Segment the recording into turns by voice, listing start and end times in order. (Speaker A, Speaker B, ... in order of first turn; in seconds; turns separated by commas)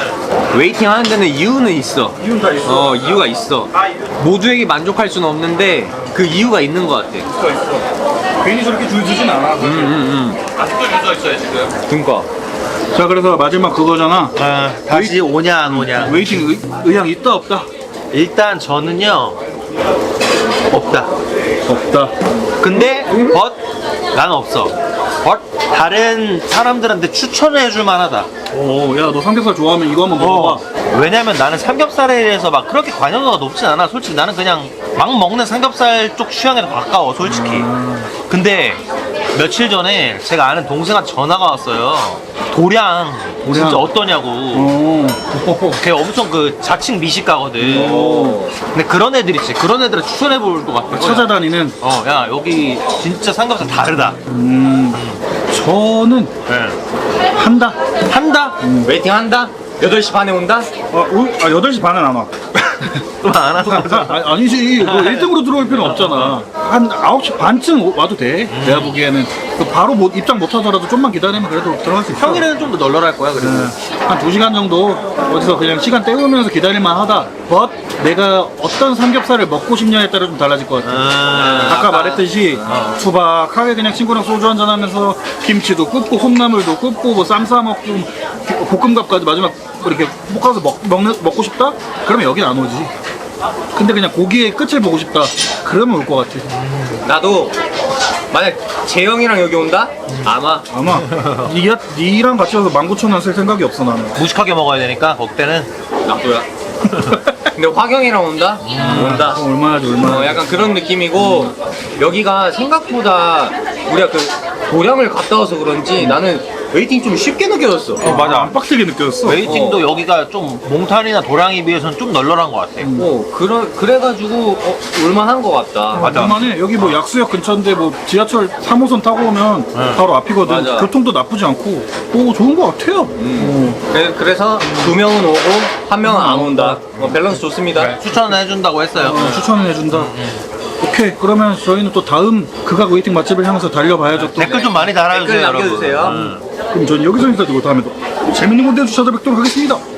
Speaker A: 0.5-7.3, Speaker B: 2.2-3.1, Speaker C: 3.7-4.1, Speaker B: 7.3-7.8, Speaker B: 8.4-10.0, Speaker A: 9.6-10.4, Speaker C: 10.6-11.7, Speaker A: 11.9-12.3, Speaker B: 12.9-14.3, Speaker C: 14.3-16.2, Speaker B: 14.9-17.7, Speaker C: 18.1-19.4, Speaker C: 20.7-21.1, Speaker B: 21.6-22.1, Speaker C: 22.6-23.6, Speaker A: 23.1-23.4, Speaker C: 24.1-28.3, Speaker B: 28.5-30.6, Speaker C: 30.2-37.7, Speaker B: 37.2-38.1, Speaker C: 38.3-38.8, Speaker C: 39.3-44.7, Speaker B: 43.5-43.9, Speaker B: 44.5-45.8, Speaker C: 45.7-54.2, Speaker B: 47.6-48.5, Speaker A: 47.7-48.5, Speaker B: 50.9-51.8, Speaker B: 54.3-56.3, Speaker C: 54.9-55.2, Speaker C: 56.5-56.8, Speaker B: 57.3-57.8, Speaker C: 58.1-58.6, Speaker B: 58.6-58.9, Speaker A: 58.7-60.7, Speaker B: 60.9-62.3, Speaker C: 62.7-64.2, Speaker B: 63.6-72.5, Speaker C: 64.8-66.4, Speaker C: 68.5-68.9, Speaker C: 72.2-73.7, Speaker B: 73.4-81.0, Speaker C: 80.8-82.0, Speaker A: 81.3-82.8, Speaker B: 81.6-92.9, Speaker C: 82.7-83.0, Speaker B: 93.7-96.5, Speaker C: 96.5-97.0, Speaker A: 97.0-97.5, Speaker A: 98.3-100.7, Speaker B: 100.7-104.2, Speaker C: 101.1-101.5, Speaker C: 104.2-105.7, Speaker A: 106.0-106.5, Speaker B: 106.9-107.4, Speaker A: 107.5-118.1, Speaker C: 108.7-109.3, Speaker B: 108.8-111.5, Speaker B: 118.0-119.6, Speaker C: 118.0-118.5, Speaker C: 119.2-122.9, Speaker A: 119.4-119.9, Speaker B: 122.8-123.1, Speaker A: 122.9-126.1, Speaker B: 125.9-133.8, Speaker C: 126.0-127.0, Speaker C: 129.7-130.0, Speaker A: 130.4-130.9, Speaker A: 133.2-138.0, Speaker B: 134.6-135.0, Speaker B: 136.0-136.8, Speaker C: 137.8-140.4, Speaker B: 138.9-140.1, Speaker B: 140.8-144.4, Speaker A: 144.2-146.2, Speaker C: 144.3-146.4, Speaker B: 146.0-149.8